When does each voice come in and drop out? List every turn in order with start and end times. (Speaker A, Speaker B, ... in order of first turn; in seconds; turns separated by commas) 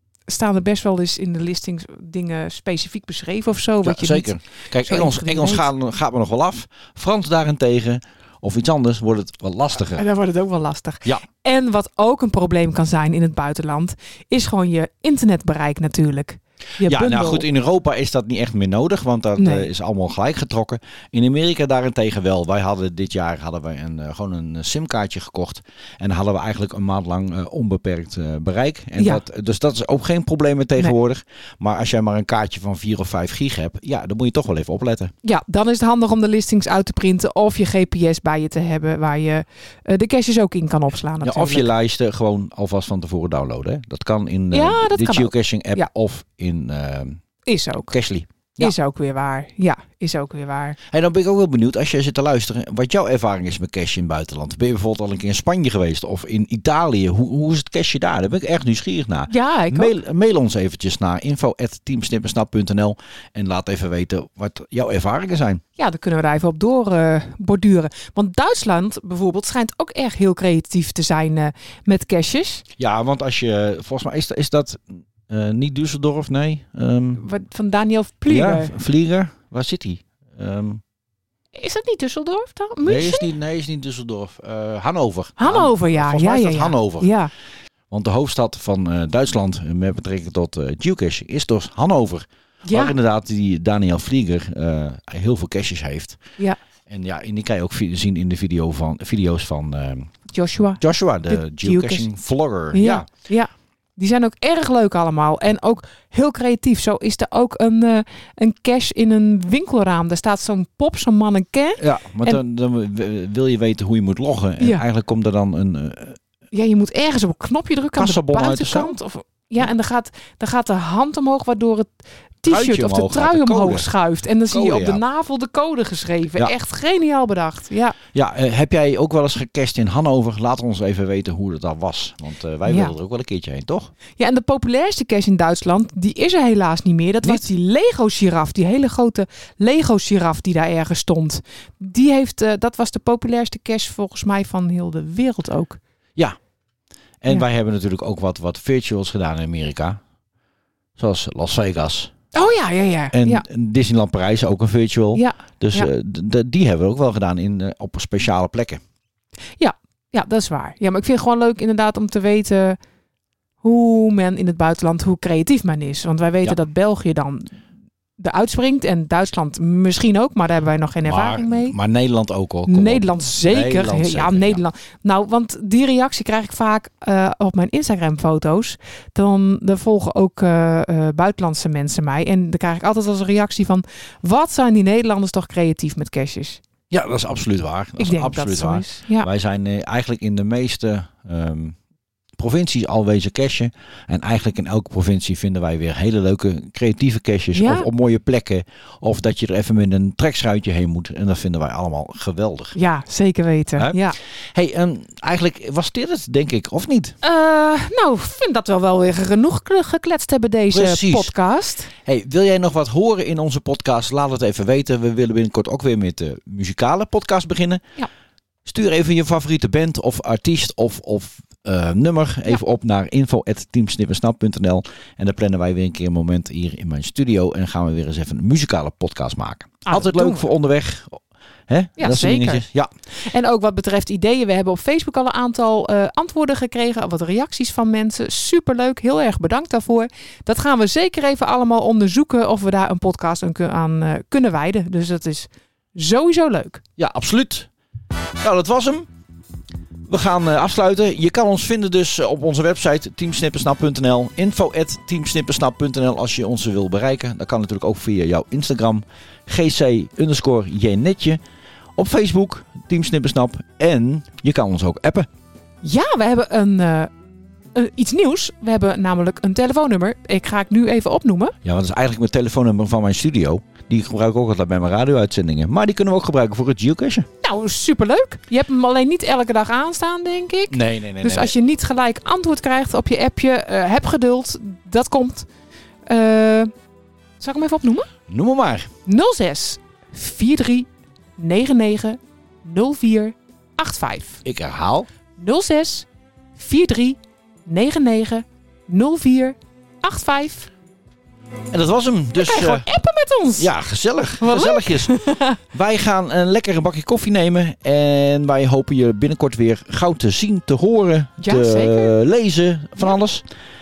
Speaker A: 0.3-5.7, Speaker B: 3.8-10.1, Speaker A: 9.9-17.5, Speaker B: 16.8-35.1, Speaker A: 19.4-19.7, Speaker A: 35.2-41.7, Speaker B: 41.2-47.2, Speaker A: 44.5-45.9, Speaker A: 47.5-47.9, Speaker B: 47.9-48.7, Speaker A: 48.6-50.8, Speaker B: 50.9-65.6, Speaker A: 59.3-60.0, Speaker A: 65.8-72.7, Speaker B: 72.8-77.2, Speaker A: 77.2-78.7, Speaker B: 78.3-80.8, Speaker A: 81.5-83.3, Speaker B: 82.8-87.1, Speaker A: 85.4-87.3, Speaker B: 87.9-96.2, Speaker A: 92.7-93.0, Speaker B: 96.9-100.1, Speaker A: 100.3-102.1, Speaker B: 100.8-103.1, Speaker A: 102.7-112.4, Speaker B: 111.8-116.2, Speaker A: 116.5-128.0, Speaker B: 118.0-119.0, Speaker B: 122.5-123.9, Speaker B: 124.5-125.0, Speaker B: 128.1-133.9, Speaker A: 132.7-132.9, Speaker A: 134.2-145.8, Speaker B: 147.2-150.0, Speaker B: 151.0-152.1, Speaker A: 152.3-153.4, Speaker B: 153.1-158.8, Speaker A: 155.2-155.9, Speaker A: 159.6-162.8, Speaker A: 163.6-167.6, Speaker A: 168.2-171.8, Speaker B: 171.1-174.6, Speaker A: 172.7-186.6, Speaker B: 186.9-191.8, Speaker A: 188.0-189.3, Speaker B: 192.4-202.8, Speaker A: 197.6-197.9, Speaker A: 202.8-204.2, Speaker B: 204.5-207.2, Speaker A: 207.2-211.9, Speaker B: 210.7-211.3, Speaker B: 212.0-217.8, Speaker B: 218.7-232.9, Speaker A: 229.9-230.4, Speaker A: 232.0-232.7, Speaker A: 233.2-246.8, Speaker B: 247.0-247.7, Speaker B: 248.4-249.1, Speaker B: 250.1-261.4, Speaker B: 262.0-265.3, Speaker A: 265.8-267.1, Speaker A: 267.7-271.6, Speaker B: 271.6-277.3, Speaker A: 277.4-285.5, Speaker B: 280.7-281.5, Speaker A: 286.1-286.7, Speaker A: 287.4-288.1, Speaker B: 288.3-288.9, Speaker A: 289.1-294.4, Speaker B: 294.4-295.1, Speaker A: 295.4-300.7, Speaker B: 301.7-302.9, Speaker A: 302.4-303.7, Speaker B: 303.6-305.1, Speaker A: 304.4-305.6, Speaker B: 305.7-313.4, Speaker A: 311.4-312.1